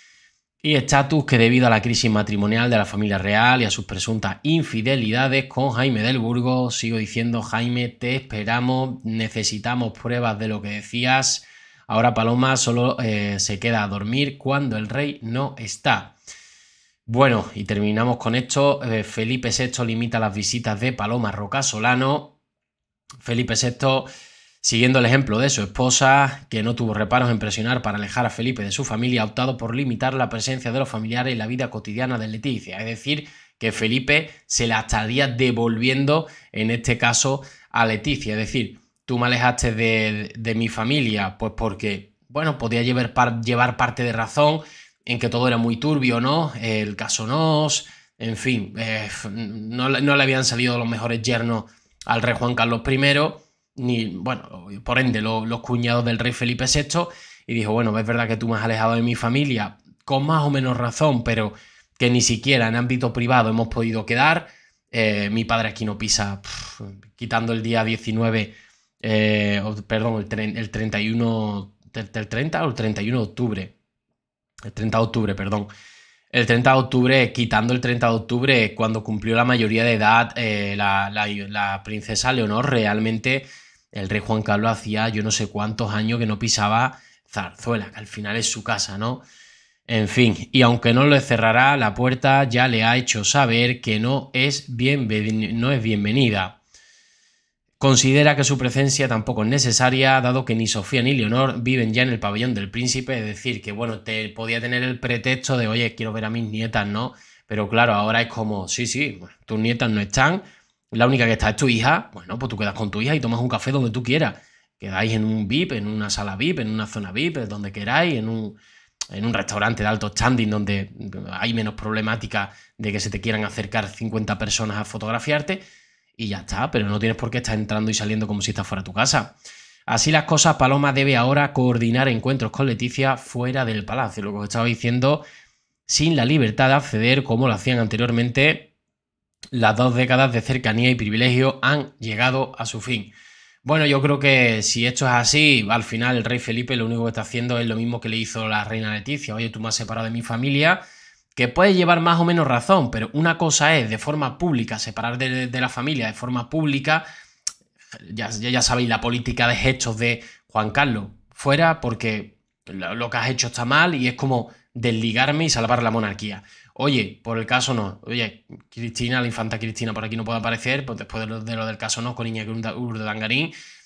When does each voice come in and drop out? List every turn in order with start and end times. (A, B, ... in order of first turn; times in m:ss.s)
0:00.6-0:16.1 A
0:17.0-0:22.3 A
0:23.2-0:24.1 A
0:24.6-1:08.5 A
1:09.0-1:13.7 A
1:14.7-1:15.7 A
1:16.3-1:29.2 A
1:29.9-1:36.6 A
1:37.8-1:58.6 A
1:59.1-2:05.6 A
2:06.2-2:09.3 A
2:09.9-2:15.2 A
2:15.8-2:18.7 A
2:19.5-2:23.1 A
2:23.6-2:30.8 A
2:31.3-2:37.0 A
2:38.0-2:53.5 A